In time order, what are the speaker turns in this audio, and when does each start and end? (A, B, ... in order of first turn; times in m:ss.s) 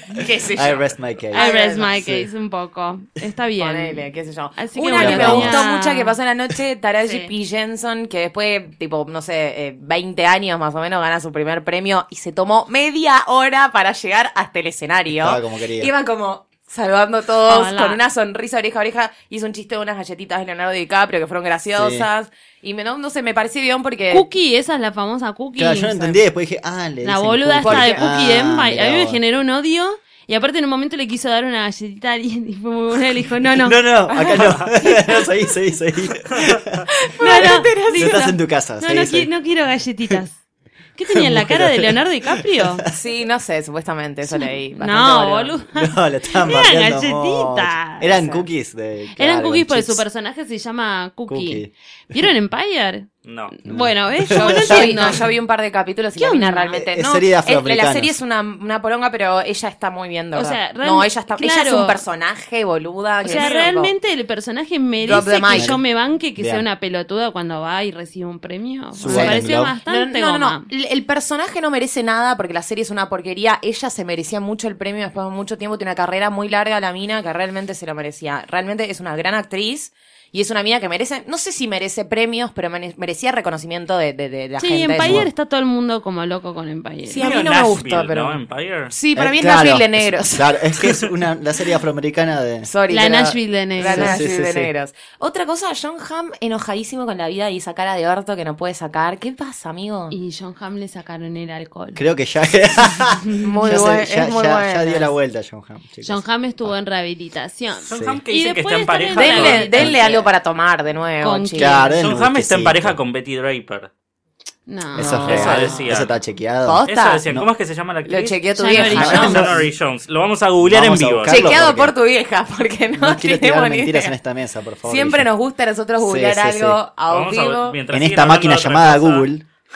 0:00.1-0:02.0 A
0:00.5-0:01.4 B
0:01.3-0:06.1 C
0:02.0-0:02.3 B
0:03.6-0:24.2 A
0:04.9-0:05.6 B
0:07.0-0:07.3 C
0:15.1-0:15.9 B
0:17.5-0:18.0 C
0:21.7-0:22.1 B
0:24.1-0:26.2 C
0:25.6-0:29.2 B
0:27.0-0:33.8 C
0:27.6-0:28.1 A
0:33.6-0:36.8 B
0:34.1-0:35.2 A
0:37.1-0:38.2 A
0:37.2-0:40.4 C
0:37.9-0:39.3 B
0:41.0-0:42.8 C
0:41.1-0:42.9 B
0:42.9-0:45.6 A
0:44.3-0:48.1 C
0:45.7-0:50.0 B
0:48.0-0:48.4 A
0:49.2-0:55.2 C
0:51.3-0:52.2 B
0:53.2-0:53.5 D
0:53.6-0:55.2 B
0:54.3-1:03.9 A
0:56.2-0:56.7 C
0:56.7-0:58.2 B
1:00.3-1:02.0 C
1:03.2-1:10.7 C
1:03.2-1:03.6 D
1:05.0-1:05.8 A
1:05.0-1:05.8 B
1:06.4-1:06.6 B
1:09.0-1:09.8 B
1:09.0-1:25.2 A
1:24.6-1:27.3 C
1:25.0-1:25.3 B
1:27.0-1:30.6 A
1:27.2-1:28.9 D
1:29.1-1:32.7 B
1:32.6-1:40.1 A
1:32.9-1:34.2 C
1:33.8-1:34.7 B
1:40.1-1:42.0 C
1:42.0-1:46.7 B
1:42.8-1:43.5 C
1:43.4-1:45.1 A
1:46.0-1:50.2 C
1:47.8-1:49.9 D
1:47.9-1:48.2 B
1:49.2-1:51.9 A
1:49.8-1:50.1 B
1:51.2-1:51.9 C
1:51.6-1:53.0 B
1:52.0-1:53.9 D
1:54.7-1:55.8 C
1:55.0-1:57.5 B
1:55.2-1:56.1 D
1:55.3-1:55.8 A
1:56.6-1:57.2 A
1:56.9-2:01.5 D
1:58.0-1:59.5 A
1:58.6-1:59.4 C
1:58.8-1:59.7 B
2:00.6-2:01.9 B
2:01.3-2:04.1 A
2:03.0-2:05.3 B
2:04.8-2:07.8 A
2:06.0-2:06.8 B
2:07.1-2:09.3 D
2:07.9-2:09.4 B